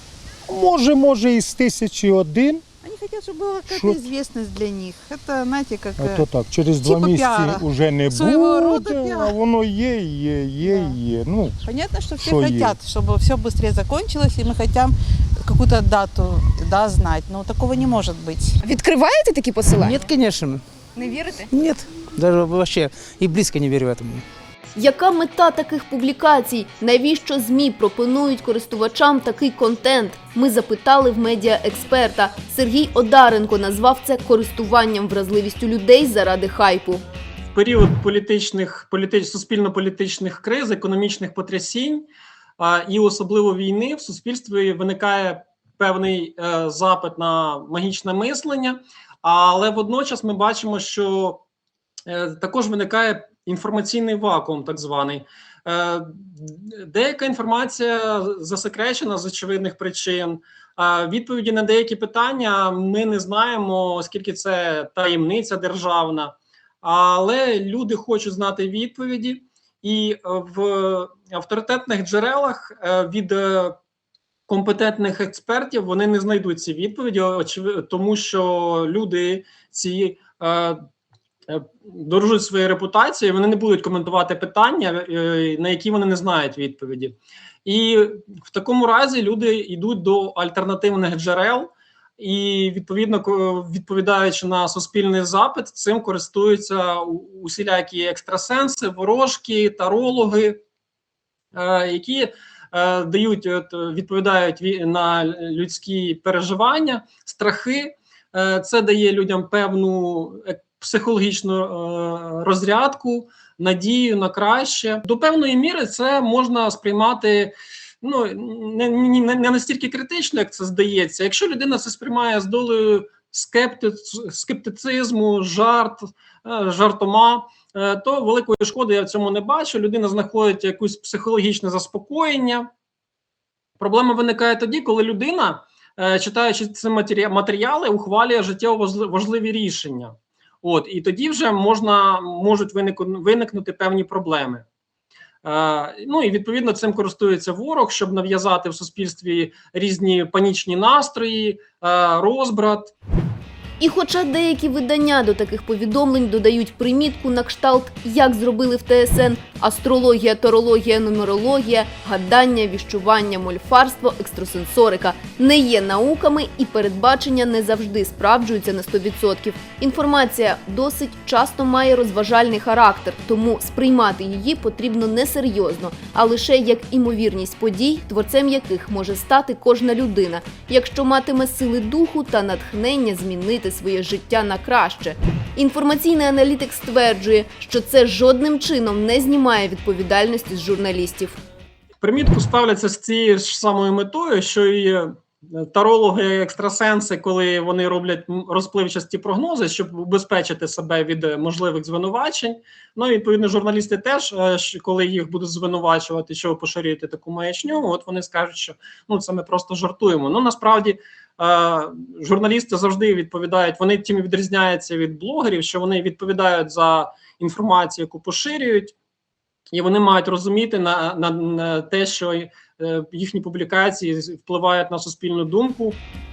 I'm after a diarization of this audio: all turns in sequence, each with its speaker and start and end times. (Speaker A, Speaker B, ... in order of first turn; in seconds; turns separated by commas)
Speaker A: 0.5-2.6, Speaker B: 2.8-9.3, Speaker A: 3.7-4.1, Speaker A: 6.0-11.6, Speaker B: 10.6-10.9, Speaker B: 11.6-18.6, Speaker A: 12.2-12.8, Speaker C: 18.8-20.0, Speaker D: 19.5-20.6, Speaker D: 21.5-24.2, Speaker C: 24.7-37.0, Speaker E: 37.5-42.1, Speaker E: 42.6-51.4, Speaker E: 52.1-73.8, Speaker E: 74.5-80.8, Speaker E: 81.5-100.6, Speaker E: 101.5-132.7, Speaker E: 133.8-144.6, Speaker E: 145.4-152.9, Speaker C: 153.8-191.4, Speaker E: 192.0-218.9, Speaker E: 219.7-226.0